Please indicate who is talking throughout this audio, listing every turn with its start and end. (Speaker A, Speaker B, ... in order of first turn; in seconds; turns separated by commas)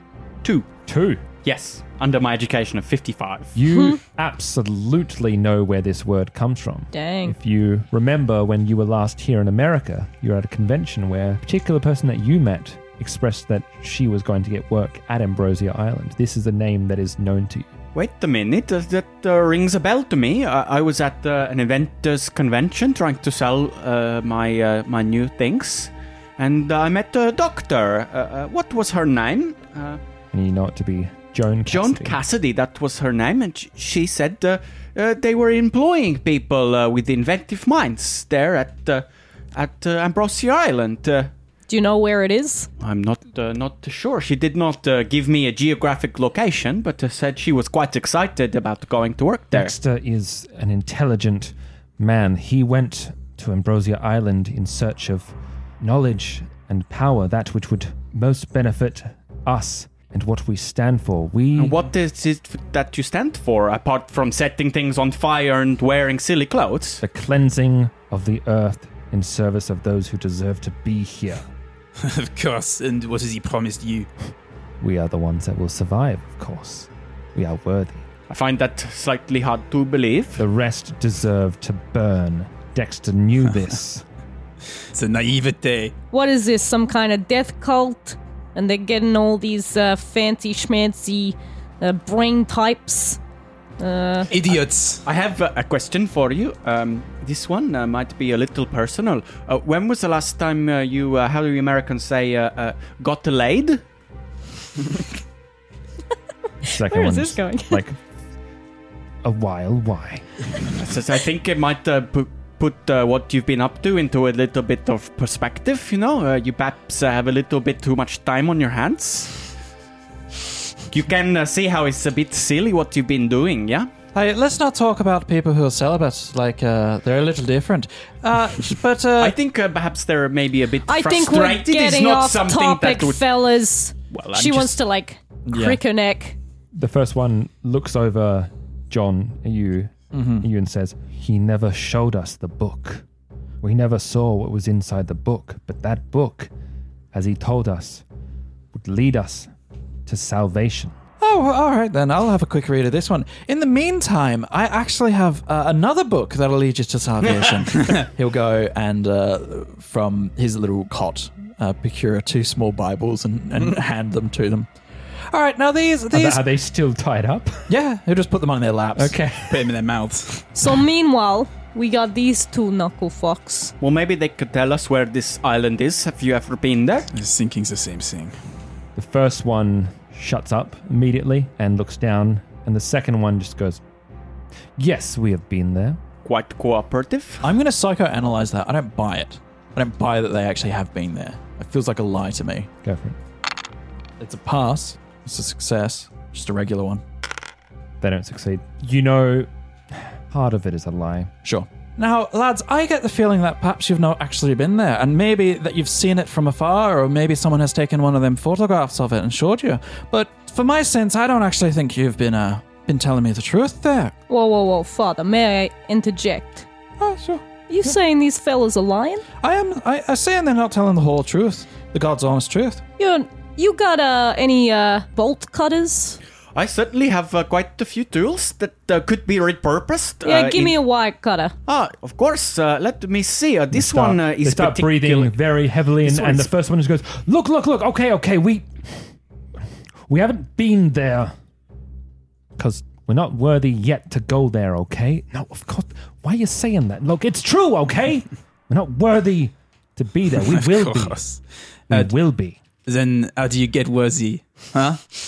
Speaker A: 0.9-1.2, Speaker B: 1.4-3.5, Speaker A: 3.5-17.7, Speaker C: 3.7-4.0, Speaker C: 6.9-7.4, Speaker B: 17.9-30.0, Speaker A: 30.3-32.2, Speaker B: 31.7-41.3, Speaker C: 41.7-42.7, Speaker B: 42.8-49.7, Speaker A: 49.5-61.8, Speaker B: 61.6-67.0, Speaker A: 67.0-71.5, Speaker D: 72.0-74.1, Speaker A: 74.8-78.1, Speaker B: 78.3-80.4, Speaker A: 80.4-84.0, Speaker D: 84.9-85.9, Speaker C: 86.1-93.2, Speaker C: 93.8-94.3, Speaker D: 94.3-95.0, Speaker B: 94.5-103.8, Speaker A: 106.6-108.0, Speaker C: 106.8-107.8, Speaker A: 109.2-110.3, Speaker B: 110.8-119.4, Speaker B: 120.9-123.9, Speaker E: 124.1-129.4, Speaker B: 129.2-133.3, Speaker C: 130.9-136.4, Speaker B: 134.1-134.8, Speaker E: 135.5-135.8, Speaker A: 136.7-143.1, Speaker E: 140.1-140.5, Speaker A: 143.6-146.5, Speaker A: 147.1-148.0, Speaker A: 148.7-149.5, Speaker A: 150.1-151.0, Speaker E: 151.2-164.7, Speaker E: 165.3-166.4, Speaker A: 166.1-167.7, Speaker E: 167.7-169.2, Speaker A: 169.0-169.7, Speaker D: 169.5-170.5, Speaker C: 170.6-173.7, Speaker B: 173.8-177.1, Speaker D: 177.1-178.4, Speaker A: 179.0-183.8, Speaker A: 184.8-186.0, Speaker B: 186.2-187.4, Speaker E: 187.4-192.7, Speaker A: 192.8-193.2, Speaker E: 194.2-197.0, Speaker A: 198.0-201.3, Speaker E: 201.4-214.1, Speaker C: 214.3-216.7, Speaker E: 217.0-218.0, Speaker C: 217.7-219.2, Speaker E: 219.4-222.8, Speaker C: 223.0-226.2, Speaker B: 226.6-230.8, Speaker C: 230.2-231.6, Speaker B: 231.7-235.4, Speaker A: 233.7-239.1, Speaker B: 236.0-236.5, Speaker A: 240.1-241.3, Speaker A: 242.6-251.4, Speaker D: 250.6-251.4, Speaker A: 251.9-252.6, Speaker D: 252.9-255.1